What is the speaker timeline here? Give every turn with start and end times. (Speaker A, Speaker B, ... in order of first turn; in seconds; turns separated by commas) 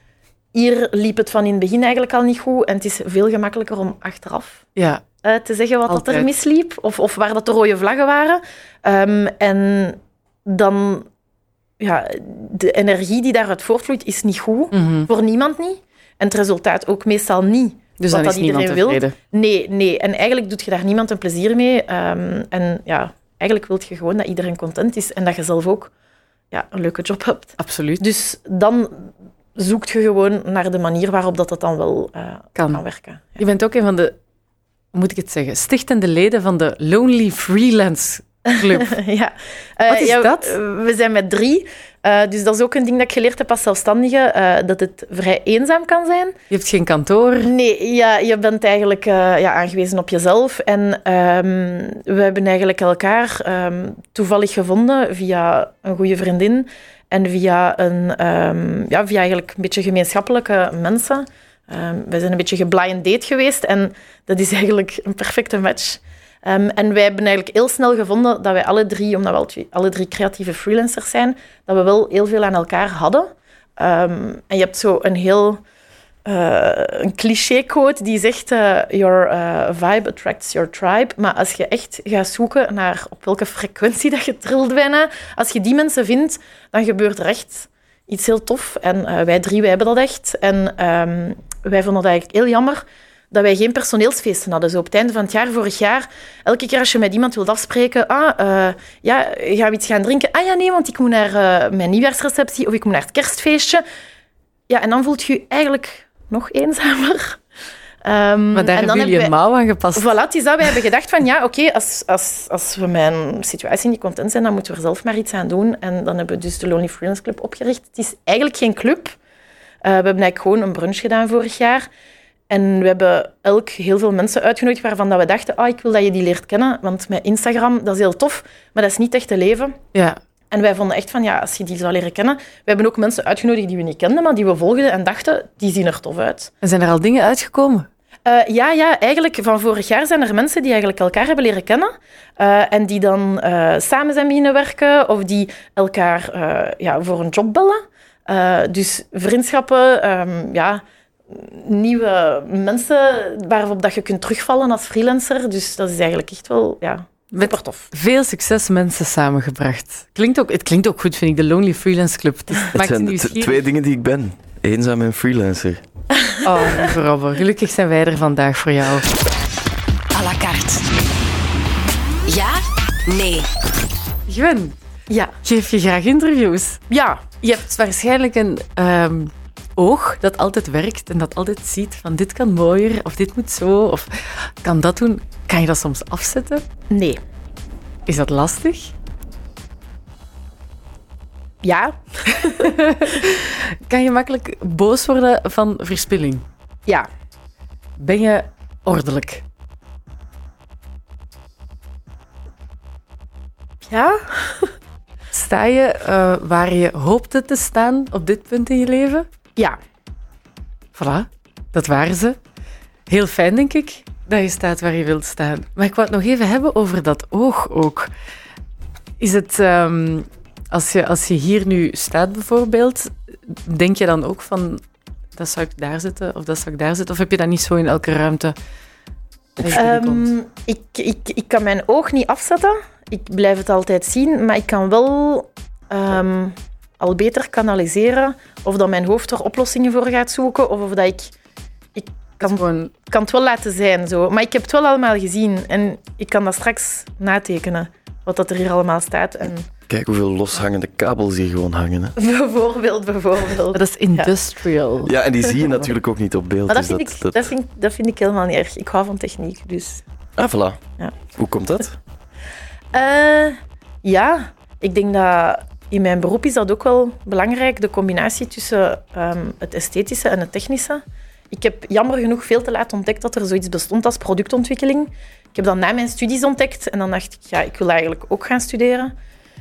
Speaker A: 0.5-4.6, Speaker B: 4.8-5.0, Speaker A: 5.2-11.1, Speaker B: 5.9-6.3, Speaker A: 11.8-25.9, Speaker B: 14.7-15.1, Speaker B: 18.0-19.1, Speaker A: 26.5-33.4, Speaker B: 27.6-28.0, Speaker B: 32.5-32.8, Speaker B: 33.4-34.1, Speaker B: 34.9-38.9, Speaker A: 38.5-46.4, Speaker B: 39.9-40.5, Speaker B: 46.5-47.5, Speaker A: 47.4-75.6, Speaker A: 76.2-103.8, Speaker A: 104.7-107.4, Speaker A: 108.0-109.3, Speaker B: 108.5-110.1, Speaker A: 109.9-119.2, Speaker A: 119.8-121.9, Speaker A: 122.5-129.8, Speaker B: 129.9-130.2, Speaker A: 130.5-136.5, Speaker B: 136.6-137.9, Speaker A: 138.2-157.9, Speaker B: 157.3-163.6, Speaker C: 162.7-165.8, Speaker A: 166.1-166.9, Speaker B: 166.4-169.1, Speaker D: 170.1-170.8, Speaker D: 172.3-173.5, Speaker B: 174.3-174.7, Speaker A: 175.1-175.3, Speaker B: 175.4-176.8, Speaker A: 176.9-177.4, Speaker B: 177.4-186.6, Speaker A: 186.9-187.2, Speaker B: 188.1-188.9, Speaker A: 191.6-192.8, Speaker B: 192.3-196.4, Speaker B: 198.0-199.4, Speaker A: 203.9-204.7, Speaker B: 205.3-209.2, Speaker B: 210.9-212.4, Speaker B: 213.1-218.1, Speaker B: 219.2-224.8, Speaker B: 225.3-228.5, Speaker B: 229.6-230.3, Speaker A: 229.6-241.3, Speaker A: 241.9-249.7, Speaker B: 242.4-242.9, Speaker C: 249.9-252.2, Speaker A: 252.2-254.3, Speaker B: 253.7-255.1, Speaker C: 255.1-257.4, Speaker A: 256.7-260.0, Speaker C: 260.4-260.8, Speaker C: 261.3-261.9, Speaker A: 262.9-279.1